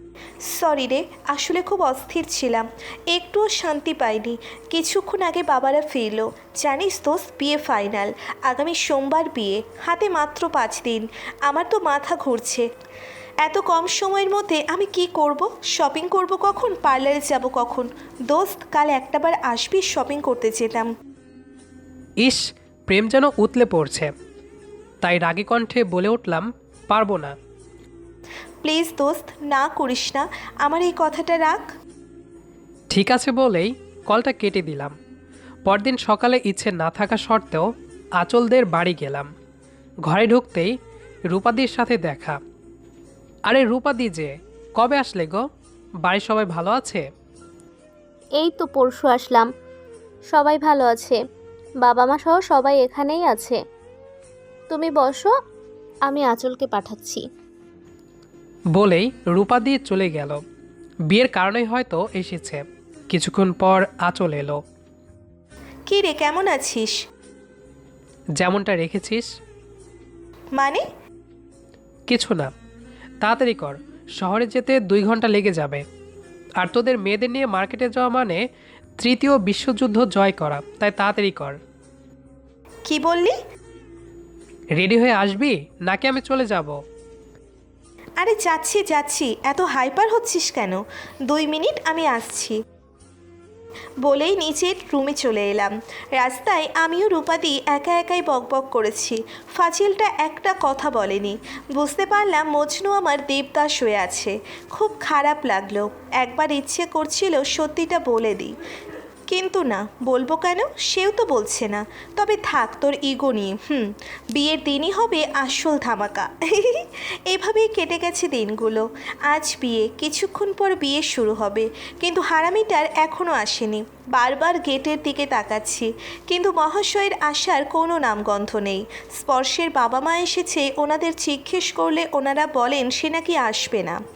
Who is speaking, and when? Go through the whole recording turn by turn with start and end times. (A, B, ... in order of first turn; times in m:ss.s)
0:00.5-0:12.6 A
0:13.4-0:20.9 A
0:22.2-0:24.1 B
0:25.0-0:27.3 B
0:28.6-0:31.6 A
0:32.9-0:34.9 B
0:35.7-0:37.7 B
0:38.2-0:39.3 B
0:40.1-0:40.7 B
0:41.3-0:42.4 B
0:43.5-0:45.4 B
0:46.0-0:47.0 B
0:48.4-0:49.5 C
0:50.3-0:51.2 C
0:51.8-0:53.6 C
0:54.7-0:55.3 C
0:56.1-0:57.2 C
0:58.7-1:00.4 B
1:01.1-1:04.6 B
1:05.9-1:06.9 A
1:08.4-1:09.3 B
1:10.6-1:10.8 A
1:12.1-1:12.5 B
1:13.2-1:15.8 B
1:16.6-1:18.4 B
1:19.0-1:21.6 B
1:22.9-1:23.3 A
1:24.8-1:26.8 B
1:28.2-1:32.6 A
1:34.0-1:48.5 A
1:49.3-2:14.0 A